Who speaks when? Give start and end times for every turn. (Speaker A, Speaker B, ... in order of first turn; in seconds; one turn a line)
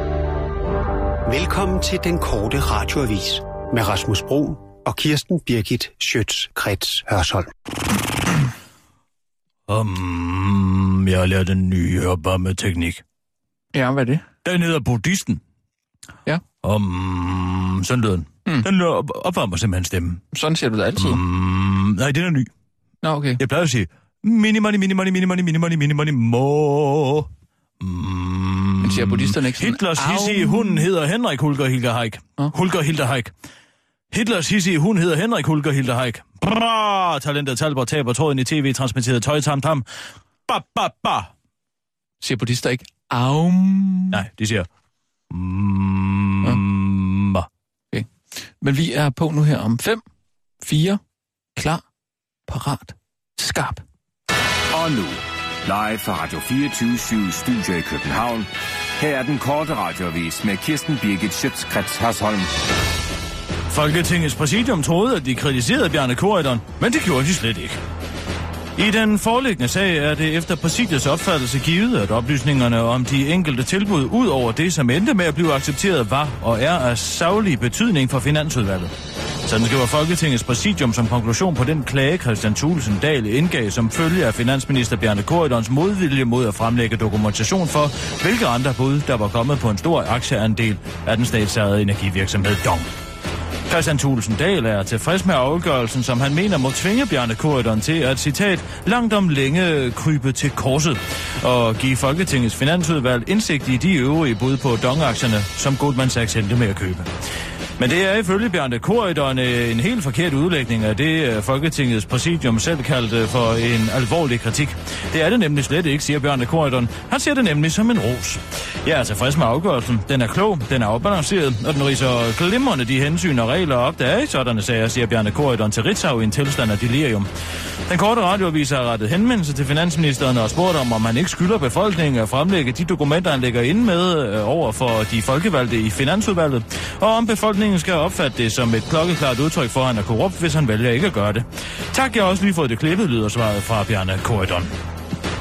Speaker A: 1.3-7.5
Speaker B: 9.7-13.0
Speaker C: 13.7-14.2
Speaker B: 14.4-15.4
Speaker B: 16.6-20.2
Speaker C: 20.3-21.2
Speaker B: 21.0-22.5
Speaker C: 23.0-23.4
Speaker B: 23.4-33.3
Speaker C: 28.8-30.9
Speaker B: 34.1-39.9
Speaker B: 40.5-41.3
Speaker C: 42.2-44.2
Speaker B: 44.1-44.7
Speaker B: 45.3-47.5
Speaker C: 48.6-50.0
Speaker C: 50.6-51.0
Speaker C: 51.6-51.8
Speaker C: 52.5-53.8
Speaker D: 54.7-62.5
Speaker B: 63.7-67.8
Speaker B: 68.8-78.9
Speaker B: 79.5-92.9
Speaker B: 93.7-107.1
Speaker B: 107.8-127.3
Speaker B: 127.9-144.7